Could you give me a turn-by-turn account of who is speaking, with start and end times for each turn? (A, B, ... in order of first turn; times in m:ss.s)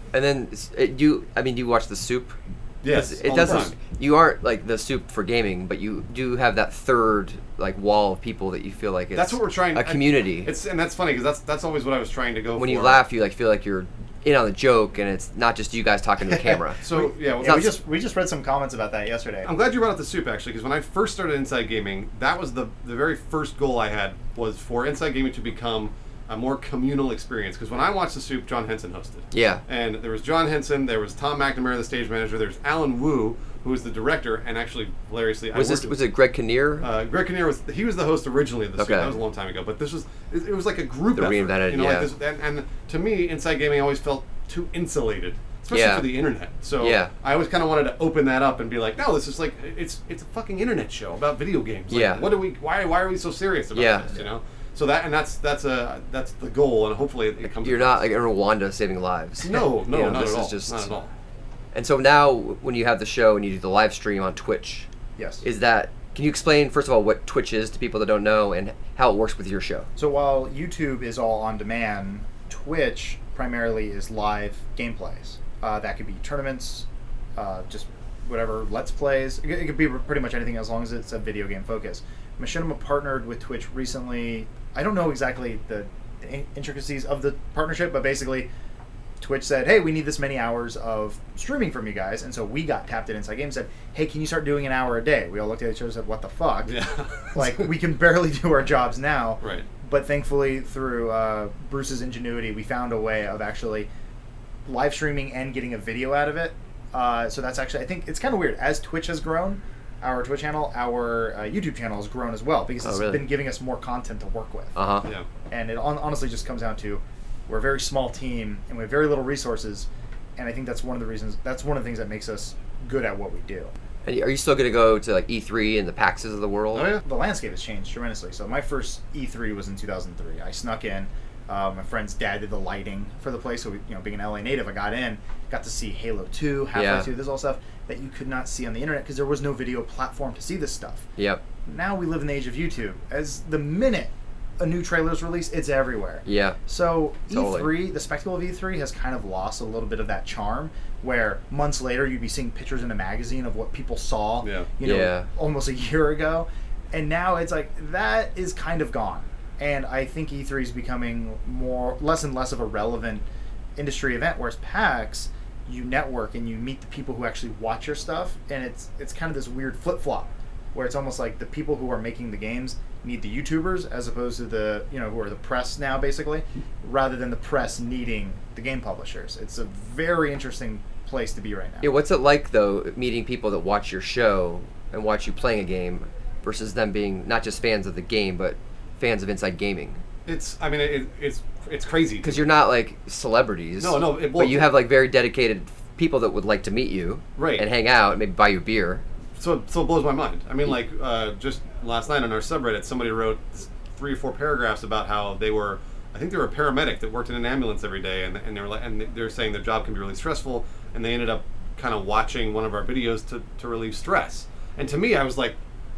0:00.1-0:02.4 A
0:02.8-0:03.8 B
0:02.9-0:10.5 A
0:09.2-0:13.0 B
0:12.6-0:16.8 A
0:16.2-0:19.5 C
0:16.8-0:17.7 B
0:17.4-0:17.7 A
0:19.5-0:36.0 B
0:29.3-0:29.6 A
0:35.5-0:36.9 A
0:36.8-0:58.0 B
0:38.8-0:39.2 A
0:41.2-0:42.1 A
0:45.7-0:46.1 A
0:46.8-0:47.1 A
0:51.9-0:52.3 A
0:53.7-0:54.1 A
0:57.5-1:00.9 A
0:59.4-1:01.1 B
1:01.7-1:04.9 A
1:05.2-1:05.4 C
1:05.4-1:09.9 A
1:10.0-1:28.5 C
1:29.2-1:36.7 C
1:36.7-1:37.7 B
1:37.4-1:43.9 C
1:39.4-1:39.7 B
1:44.7-1:54.8 C
1:52.8-1:53.3 A
1:54.8-1:55.1 A
1:55.5-2:03.7 C
2:04.0-2:07.0 A
2:06.7-2:07.0 B
2:07.0-2:21.1 C
2:16.7-2:17.1 A
2:21.2-2:21.4 A
2:21.7-3:01.9 C
2:26.3-2:26.6 A
2:27.3-2:27.7 A
2:34.4-2:34.7 B
2:34.8-2:35.3 A
3:01.8-3:10.0 A
3:10.3-3:12.4 B
3:12.2-3:19.0 A
3:13.8-3:14.7 B
3:17.4-3:17.7 B
3:19.4-3:35.6 B